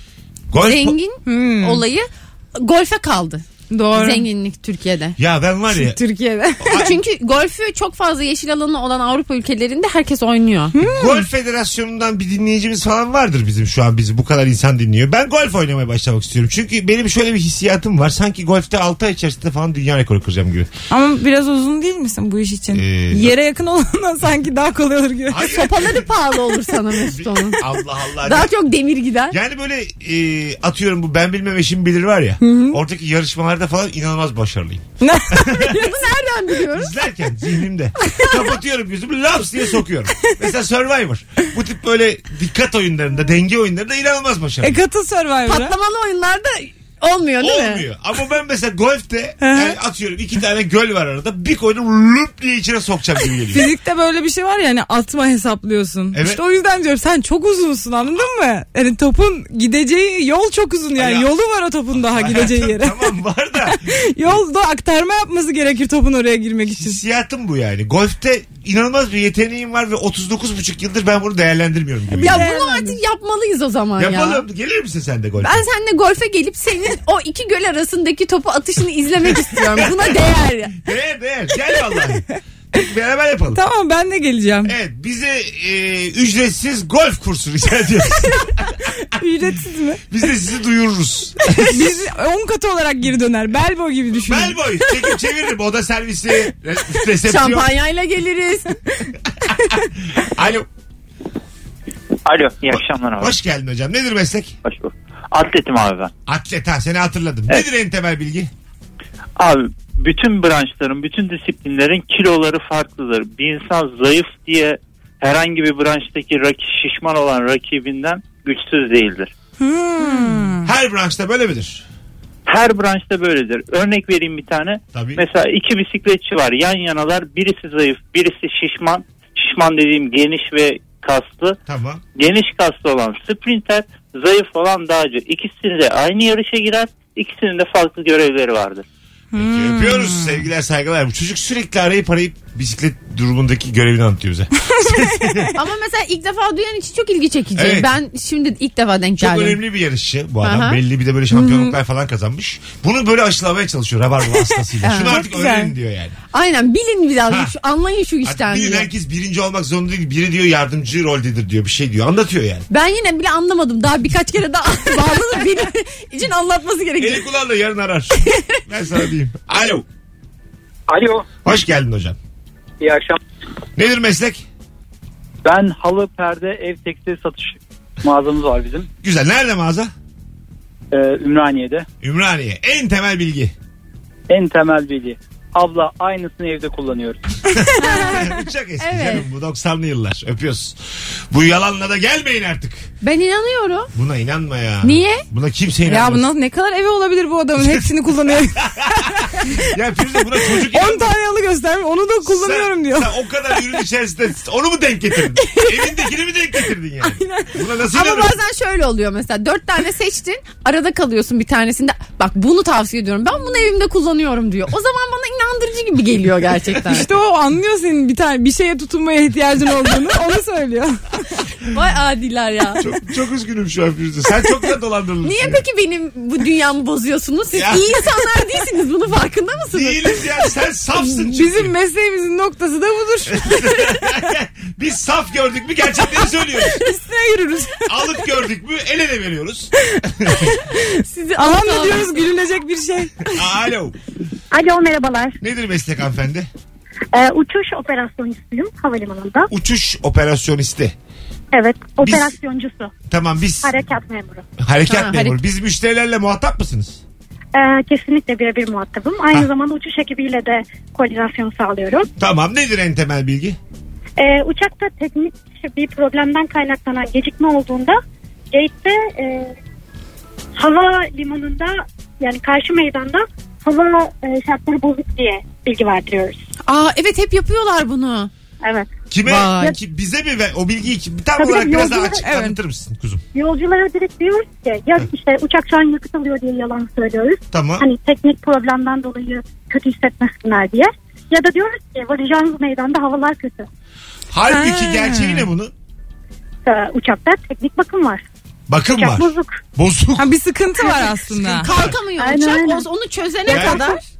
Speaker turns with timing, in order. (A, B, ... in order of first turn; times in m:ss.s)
0:00.5-0:01.0 A
0:00.6-0:05.2 B
0:01.2-0:01.8 C
0:03.7-0:04.3 C
0:05.2-0:06.0 A
0:05.7-0:06.9 C
0:06.6-0:07.0 A
0:06.7-0:10.7 B
0:10.7-0:11.2 C
0:10.8-0:20.7 A
0:20.9-0:25.6 C
0:22.7-0:23.3 A
0:25.3-0:26.1 A
0:25.4-0:27.6 B
0:27.0-0:28.5 A
0:28.2-0:29.4 B
0:29.3-0:35.8 A
0:32.4-0:32.8 C
0:35.0-0:35.5 C
0:35.5-0:36.9 B
0:36.7-0:44.8 A
0:38.1-0:38.4 B
0:44.6-0:45.8 C
0:45.4-0:47.8 B
0:47.4-0:53.7 A
0:49.4-0:49.8 C
0:53.5-1:03.0 C
0:56.1-0:56.4 A
1:01.0-1:01.3 A
1:01.9-1:04.3 A
1:03.7-1:07.0 C
1:06.8-1:12.5 A
1:12.1-1:13.0 C
1:12.2-1:14.4 B
1:14.0-1:15.6 A
1:15.4-1:20.7 B
1:19.8-1:20.2 A
1:20.7-1:23.6 A
1:23.5-1:24.7 C
1:24.6-1:28.7 A
1:29.0-1:30.0 C
1:30.1-1:32.0 A
1:31.6-1:34.6 C
1:34.2-1:37.7 A
1:37.2-1:38.8 B
1:40.0-1:40.7 A
1:42.2-1:43.4 D
1:42.7-1:44.6 A
1:44.6-1:46.1 D
1:46.3-1:48.5 A
1:49.4-1:59.3 D
1:59.6-2:00.7 C
2:00.6-2:01.8 A
2:02.5-2:11.6 D
2:04.9-2:05.2 A
2:11.7-2:12.0 A
2:12.2-2:18.8 D
2:19.3-2:20.4 C
2:19.3-2:25.5 A
2:25.2-2:25.5 C
2:25.5-2:29.6 B
2:27.5-2:27.9 A
2:29.2-2:36.2 A
2:30.4-2:30.8 B
2:31.4-2:31.7 C
2:34.8-2:35.2 B
2:35.0-2:35.7 C
2:36.3-2:38.9 B
2:37.3-2:37.5 A
2:38.2-2:42.7 A
2:42.7-2:47.2 B
2:47.0-2:49.8 A
2:50.9-2:51.2 E
2:51.4-2:52.2 A
2:52.8-2:53.2 E
2:53.8-2:54.4 A
2:55.4-2:58.9 E
2:59.0-2:59.9 A
3:00.9-3:01.8 E
3:02.0-3:03.5 A
3:04.3-3:07.2 E
3:07.6-3:10.8 A
3:07.8-3:09.2 B
3:11.3-3:12.9 A
3:13.0-3:13.9 B
3:13.9-3:16.3 A
3:14.8-3:15.2 B
3:15.8-3:19.6 C
3:17.6-3:17.9 A
3:18.4-3:21.1 A
3:20.5-3:23.1 C
3:22.2-3:28.4 A
3:27.0-3:27.5 C
3:27.9-3:37.0 B
3:36.9-3:41.2 C
3:41.7-3:42.8 B
3:42.8-3:45.6 A
3:45.2-3:50.2 B
3:47.5-3:48.0 A
3:49.7-3:51.7 A
3:51.0-3:54.0 C
3:53.3-3:56.8 A
3:56.8-3:57.9 C
3:57.9-4:00.5 A
4:01.0-4:02.2 B
4:01.4-4:03.2 C
4:03.3-4:04.0 A
4:04.5-4:05.4 F
4:05.4-4:06.5 A
4:07.1-4:09.5 F
4:09.5-4:10.9 A
4:11.5-4:12.9 F
4:12.0-4:12.3 A
4:13.1-4:13.8 A
4:13.6-4:14.4 F
4:14.6-4:17.0 A
4:14.9-4:15.4 B
4:17.5-4:22.1 F
4:22.2-4:23.6 A
4:24.2-4:28.0 F
4:28.5-4:29.5 F
4:30.6-4:36.4 F
4:36.7-4:38.3 B
4:38.6-4:38.9 F
4:39.1-4:43.2 A
4:39.2-4:39.7 B
4:41.4-4:42.2 F
4:42.2-4:42.6 C
4:43.3-4:53.7 F
4:47.5-4:47.9 A
4:54.3-4:55.7 A
4:54.5-4:55.5 C
4:56.6-4:58.2 F
4:58.7-5:00.3 A
4:58.9-4:59.6 F
5:00.2-5:01.7 C
5:00.8-5:04.0 B
5:01.6-5:02.0 A
5:02.2-5:02.8 F
5:03.4-5:03.9 F
5:03.5-5:03.8 A